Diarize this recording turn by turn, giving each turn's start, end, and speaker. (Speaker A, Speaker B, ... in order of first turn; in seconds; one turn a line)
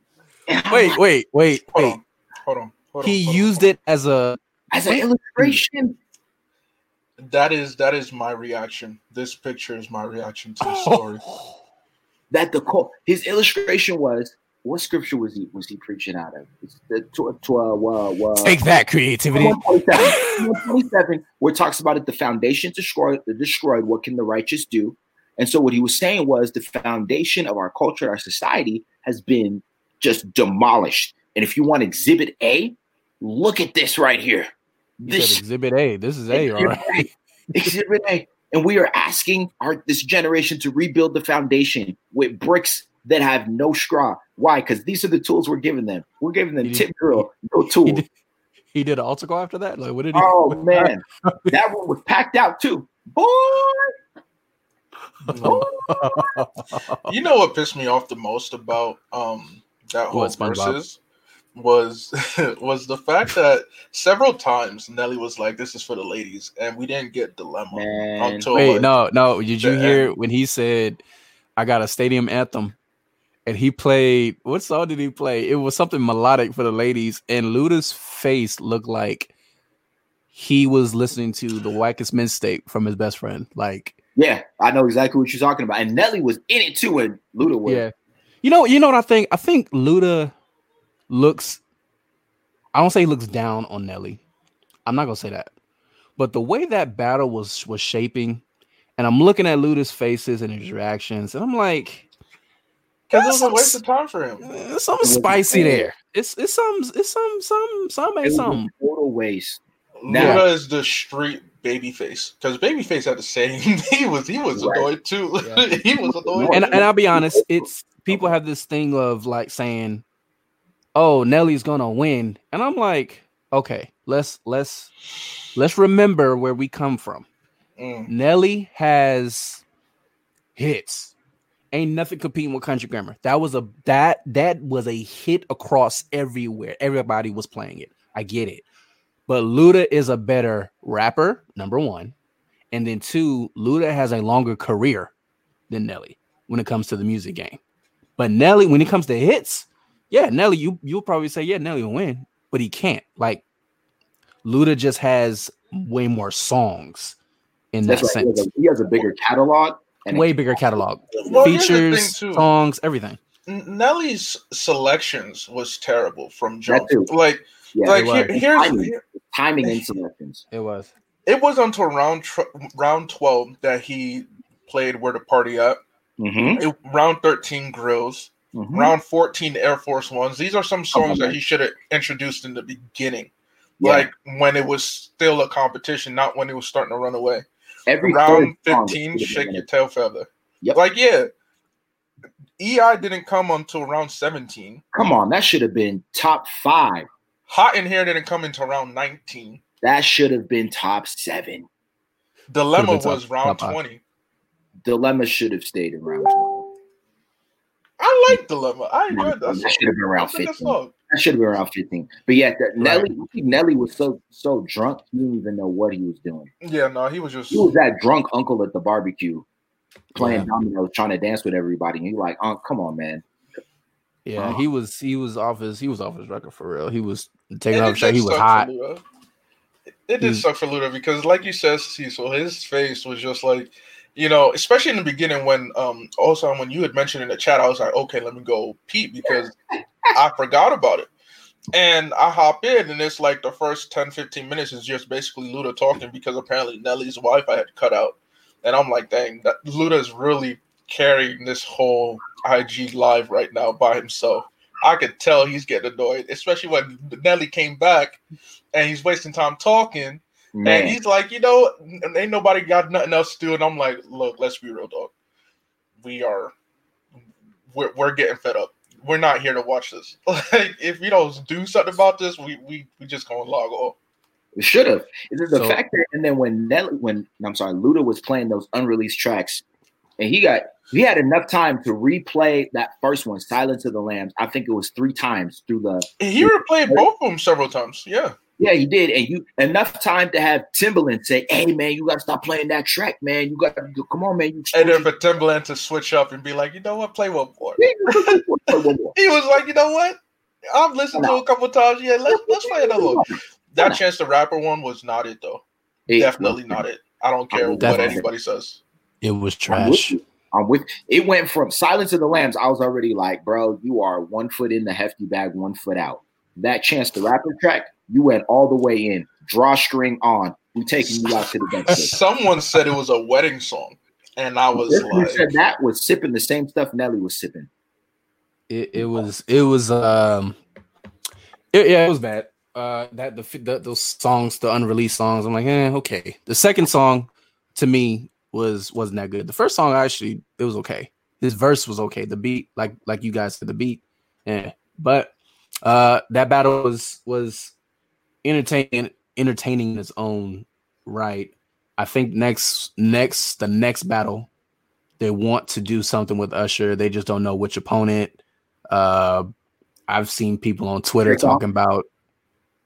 Speaker A: 0.5-1.0
Speaker B: 0.7-2.0
Speaker C: 1.7-3.7
Speaker B: 3.0-5.6
Speaker A: 4.7-6.0
Speaker C: 7.2-11.3
Speaker B: 10.6-11.5
Speaker A: 12.3-18.6
Speaker B: 18.4-20.6
Speaker A: 19.3-35.4
Speaker B: 35.1-37.1
Speaker A: 36.3-48.0
Speaker B: 46.6-47.3
Speaker B: 47.8-48.1
Speaker B: 48.7-51.6
Speaker A: 50.1-53.9
Speaker B: 55.2-57.1
Speaker C: 55.3-55.7
Speaker C: 57.1-61.0
Speaker B: 60.1-60.8
Speaker C: 61.5-68.9
Speaker A: 67.7-68.5
Speaker B: 68.5-71.0
Speaker C: 69.6-70.1
Speaker B: 71.6-72.8
Speaker B: 73.5-79.3
Speaker B: 80.3-84.0
Speaker A: 84.2-87.8
Speaker B: 87.7-87.9
Speaker B: 88.4-90.3
Speaker B: 91.1-91.6
Speaker B: 92.7-94.2
Speaker B: 94.9-95.5
Speaker B: 96.2-98.4
Speaker B: 99.0-102.1
Speaker C: 103.1-104.5
Speaker B: 103.1-103.8
Speaker B: 104.4-108.7
Speaker A: 105.0-105.9
Speaker A: 108.2-110.5
Speaker C: 110.0-116.9
Speaker B: 110.2-110.5
Speaker A: 114.5-114.9
Speaker B: 115.4-115.7
Speaker A: 116.0-118.3
Speaker B: 116.4-120.0
Speaker B: 121.0-124.9
Speaker B: 125.5-127.3
Speaker C: 127.8-128.1
Speaker B: 128.1-129.6
Speaker B: 130.6-131.1
Speaker B: 131.7-138.6
Speaker B: 139.3-142.2
Speaker B: 142.7-145.1
Speaker B: 145.7-147.6
Speaker B: 148.2-153.4
Speaker B: 154.4-157.2
Speaker B: 157.7-158.5
Speaker A: 157.9-161.5
Speaker B: 160.1-163.2
Speaker C: 161.2-162.5
Speaker C: 163.5-169.0
Speaker A: 166.7-167.1
Speaker A: 167.8-170.4
Speaker B: 167.9-168.3
Speaker B: 170.5-170.9
Speaker C: 171.3-175.8
Speaker A: 176.2-176.6
Speaker C: 176.6-183.3
Speaker A: 178.5-178.9
Speaker A: 180.9-181.4
Speaker A: 183.8-184.1
Speaker C: 183.8-187.4
Speaker A: 187.9-189.7
Speaker C: 188.0-191.3
Speaker C: 192.6-194.8
Speaker A: 194.9-197.1
Speaker C: 197.5-199.6
Speaker A: 199.8-201.7
Speaker C: 202.5-204.0
Speaker B: 202.8-203.8
Speaker A: 204.8-206.7
Speaker C: 208.0-210.9
Speaker A: 209.1-216.5
Speaker B: 212.8-213.1
Speaker C: 216.6-217.8
Speaker A: 217.5-219.5
Speaker A: 220.2-223.2
Speaker B: 220.2-220.5
Speaker B: 224.2-228.7
Speaker C: 227.7-229.0
Speaker C: 230.1-239.5
Speaker B: 230.2-230.4
Speaker C: 240.1-241.1
Speaker C: 241.7-258.2
Speaker C: 258.7-265.1
Speaker A: 260.6-261.0
Speaker C: 266.0-266.5
Speaker C: 267.7-274.0
Speaker A: 274.6-279.6
Speaker B: 275.5-275.8
Speaker A: 280.2-287.0
Speaker C: 286.2-288.4
Speaker A: 288.6-295.1
Speaker C: 294.7-298.4
Speaker A: 297.8-299.1
Speaker C: 299.1-300.2
Speaker C: 300.7-308.8
Speaker A: 301.1-301.4
Speaker A: 302.3-304.0
Speaker A: 306.1-306.8
Speaker A: 307.5-308.3
Speaker B: 307.8-308.2
Speaker B: 309.2-310.2
Speaker A: 309.7-322.2
Speaker B: 321.9-322.1
Speaker C: 321.9-325.5
Speaker A: 324.7-327.7
Speaker B: 328.7-330.6
Speaker A: 329.0-329.2
Speaker B: 331.7-347.7
Speaker B: 348.4-354.5
Speaker B: 355.2-358.4
Speaker B: 358.9-359.5
Speaker B: 360.1-362.1
Speaker A: 361.2-361.6